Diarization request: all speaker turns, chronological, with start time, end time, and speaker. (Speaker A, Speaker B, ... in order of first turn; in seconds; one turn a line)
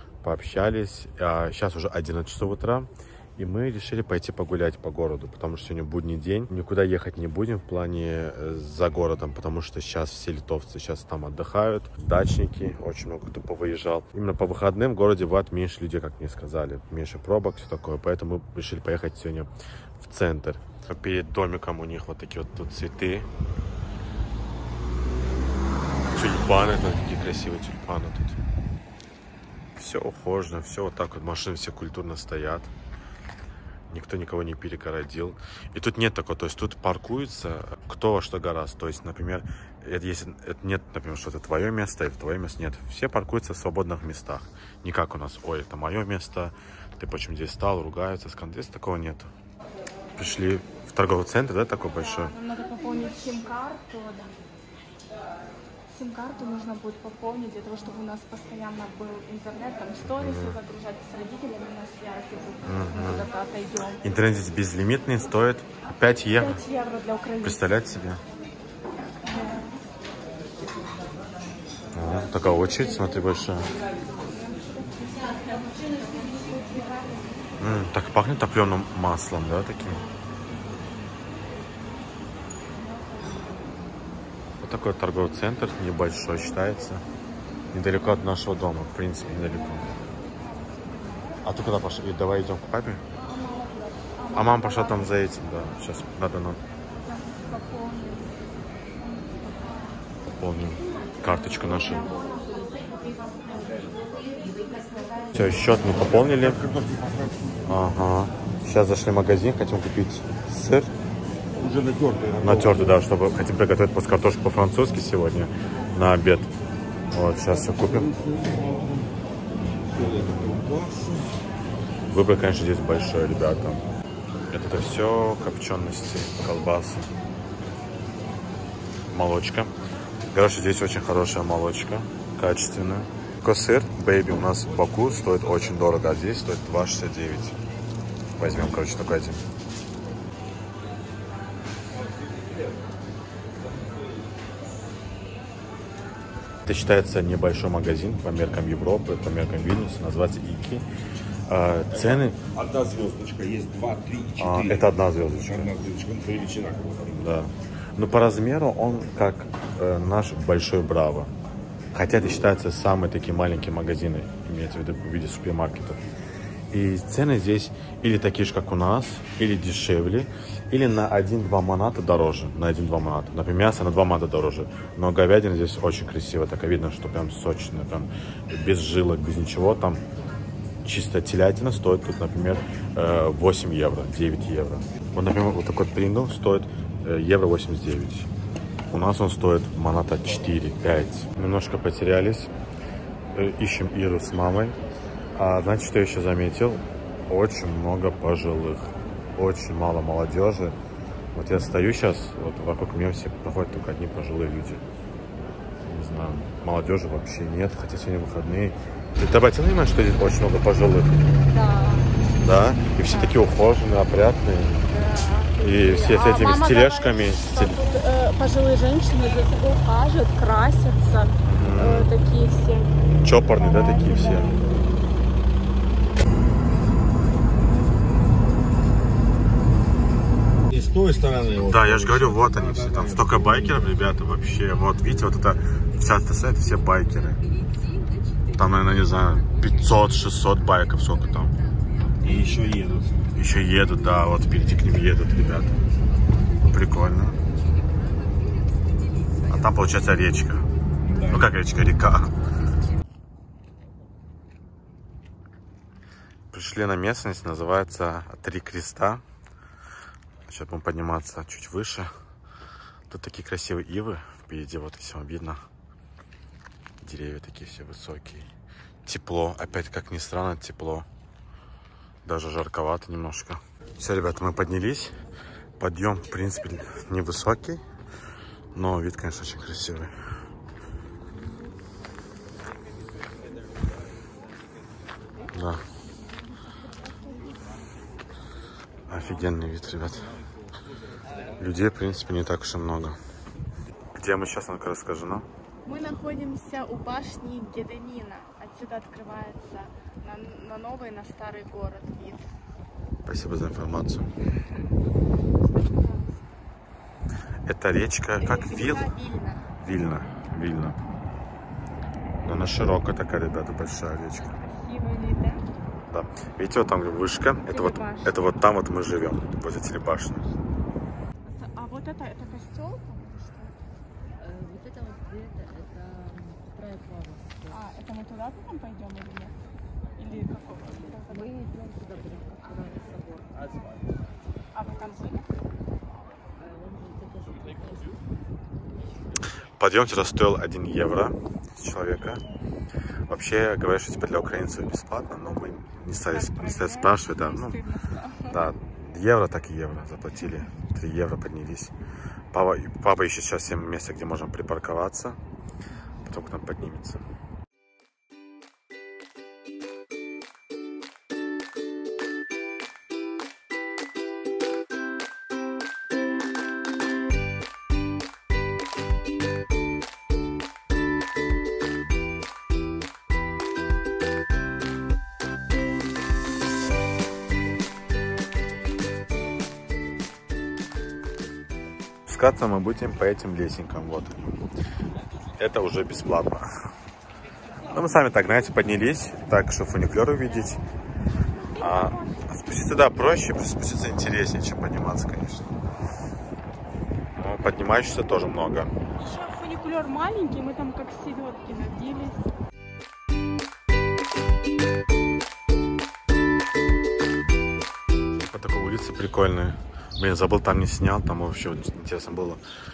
Speaker A: 0.2-23.3
Speaker A: 26.1-28.4
Speaker A: 29.8-32.7
Speaker A: 33.9-49.3
Speaker A: 50.1-52.4
Speaker B: 52.0-54.4
Speaker B: 55.9-64.1
Speaker A: 60.0-60.6
Speaker A: 62.6-63.3
Speaker A: 64.0-66.6
Speaker B: 66.4-67.6
Speaker A: 67.4-68.2
Speaker A: 72.0-73.7
Speaker B: 74.4-77.3
Speaker A: 77.6-80.1
Speaker A: 84.6-87.0
Speaker A: 87.7-90.0
Speaker B: 90.3-91.4
Speaker A: 91.4-93.0
Speaker B: 93.2-93.6
Speaker B: 94.2-95.1
Speaker A: 94.3-96.6
Speaker B: 97.2-98.5
Speaker B: 99.1-99.9
Speaker A: 100.3-102.2
Speaker B: 102.3-104.3
Speaker A: 105.3-106.7
Speaker A: 107.7-110.9
Speaker C: 111.6-112.4
Speaker A: 112.4-116.5
Speaker A: 117.1-118.2
Speaker C: 118.4-118.7
Speaker C: 120.0-121.3
Speaker A: 120.1-120.6
Speaker A: 122.1-123.8
Speaker A: 124.5-127.1
Speaker A: 129.1-129.7
Speaker A: 130.3-137.6
Speaker A: 138.4-139.4
Speaker A: 146.7-150.8
Speaker A: 151.5-152.4
Speaker C: 152.4-154.9
Speaker A: 154.4-155.8
Speaker C: 155.6-157.2
Speaker A: 157.1-161.3
Speaker A: 161.9-166.0
Speaker A: 166.7-180.0
Speaker A: 180.8-188.3
Speaker A: 188.9-192.5
Speaker A: 193.3-194.8
Speaker A: 195.4-200.8
Speaker A: 201.3-204.8
Speaker A: 205.8-211.2
Speaker B: 211.5-212.2
Speaker A: 212.4-214.9
Speaker B: 213.0-213.4
Speaker B: 214.9-224.7
Speaker A: 215.6-217.8
Speaker A: 221.4-222.1
Speaker A: 223.2-224.6
Speaker C: 230.7-231.7
Speaker A: 231.6-237.4
Speaker C: 232.6-233.0
Speaker A: 238.6-241.6
Speaker C: 242.2-243.2
Speaker A: 243.3-245.8
Speaker A: 246.7-247.4
Speaker A: 249.5-250.7
Speaker A: 251.2-252.3
Speaker A: 256.5-259.2
Speaker A: 260.5-262.1
Speaker A: 263.1-265.6
Speaker A: 267.0-268.5
Speaker A: 269.1-271.1
Speaker A: 272.2-275.2
Speaker A: 275.8-277.8
Speaker A: 278.7-280.1
Speaker A: 285.5-285.8
Speaker B: 287.1-287.6
Speaker A: 289.1-290.3
Speaker A: 291.6-293.2
Speaker A: 294.1-295.5
Speaker B: 295.9-302.5
Speaker A: 303.3-304.3
Speaker B: 305.6-306.4
Speaker A: 307.7-309.1
Speaker B: 308.4-309.7
Speaker A: 309.8-311.0
Speaker A: 312.4-314.5
Speaker B: 314.5-315.7
Speaker A: 316.1-320.5
Speaker B: 317.6-318.4
Speaker B: 321.5-323.8
Speaker D: 324.4-327.6
Speaker B: 327.7-329.6
Speaker B: 330.2-331.6
Speaker D: 331.5-333.4
Speaker B: 334.7-335.5
Speaker D: 336.7-338.0
Speaker A: 339.8-342.4
Speaker A: 343.3-347.8
Speaker B: 346.2-348.6
Speaker A: 348.5-351.9
Speaker A: 352.5-355.4
Speaker A: 356.2-357.2
Speaker A: 382.3-384.6
Speaker A: 385.6-386.7
Speaker A: 387.9-390.8
Speaker B: 391.7-392.4
Speaker A: 391.8-395.7
Speaker A: 397.4-398.9
Speaker B: 399.2-402.4
Speaker A: 408.3-412.6